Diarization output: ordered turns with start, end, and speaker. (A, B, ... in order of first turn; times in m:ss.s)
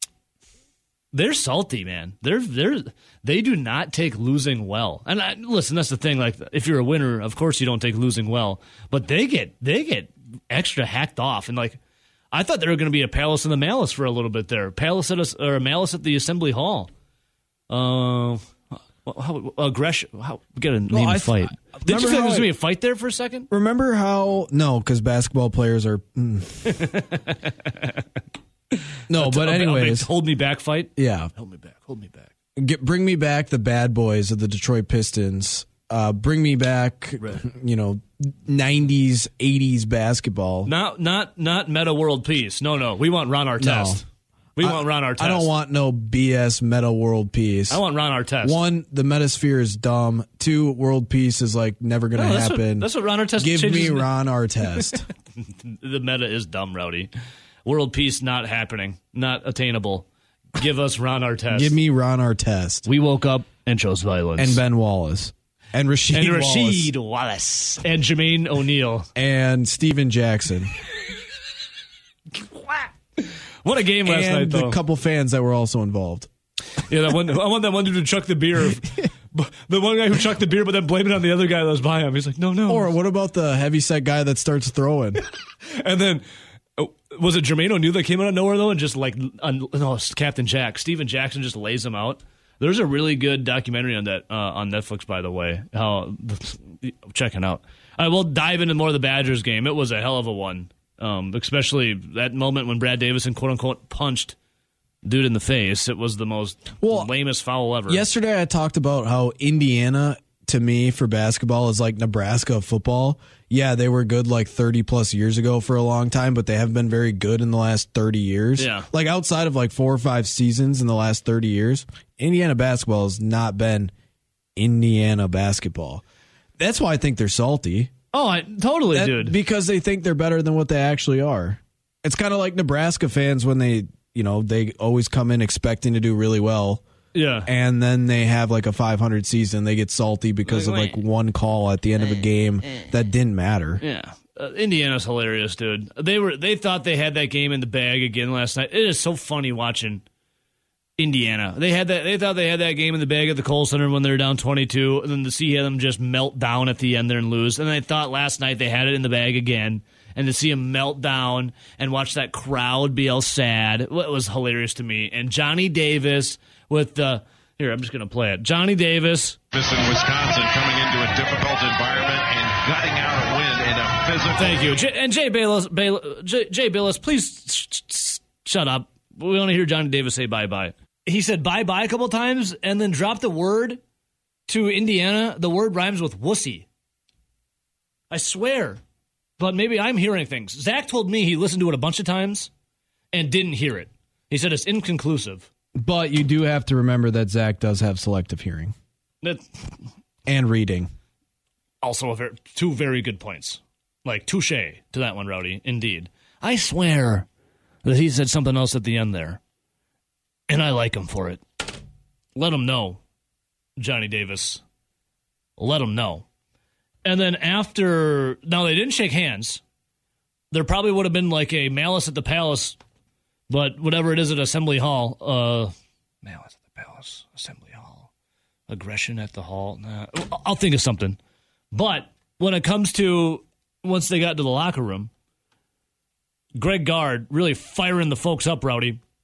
0:01.1-0:11.8 A
0:12.3-0:16.9 A
0:17.7-0:23.5 A
0:20.9-0:22.5 B
0:23.5-0:26.8 B
0:26.6-0:27.9 A
0:28.7-0:32.3 A
0:29.1-0:30.1 B
0:31.0-0:31.3 B
0:32.6-0:40.7 B
0:40.6-0:44.0 A
0:43.6-0:44.0 B
0:44.6-0:45.5 A
0:44.6-0:47.8 B
0:47.7-0:48.6 A
0:48.4-0:55.1 B
0:52.2-0:54.1 A
0:55.6-0:57.1 A
0:57.6-1:01.7 A
1:01.5-1:02.9 B
1:02.8-1:04.6 A
1:04.4-1:06.9 B
1:06.1-1:09.1 A
1:09.2-1:10.7 B
1:12.4-1:14.8 A
1:14.0-1:16.3 B
1:16.8-1:22.9 A
1:22.7-1:25.2 B
1:25.6-1:26.2 A
1:26.8-1:44.3 A
1:45.0-1:48.0 A
1:46.8-1:47.1 B
1:47.9-2:03.9 B
1:58.6-1:58.9 A
2:04.6-2:06.0 B
2:06.6-2:07.9 B
2:08.1-2:09.4 A
2:08.9-2:16.8 B
2:17.1-2:17.5 A
2:17.4-2:23.8 B
2:20.4-2:21.0 A
2:23.8-2:30.0 A
2:31.0-2:49.4 A
2:49.5-2:54.8 C
2:54.4-3:03.8 A
3:04.5-3:06.6 A
3:08.1-3:08.8 A
3:09.4-3:12.5 A
3:13.1-3:15.5 A
3:15.8-3:18.7 B
3:20.2-3:20.9 B
3:21.8-3:27.3 A
3:27.8-3:29.4 A
3:30.5-3:31.4 A
3:32.3-3:33.0 A
3:33.8-3:34.6 A
3:35.6-3:36.2 A
3:37.0-3:39.6 A
3:40.5-3:42.8 A
3:43.5-3:48.1 A
3:48.7-3:51.2 A
3:51.7-3:55.1 A
3:56.5-3:59.0 A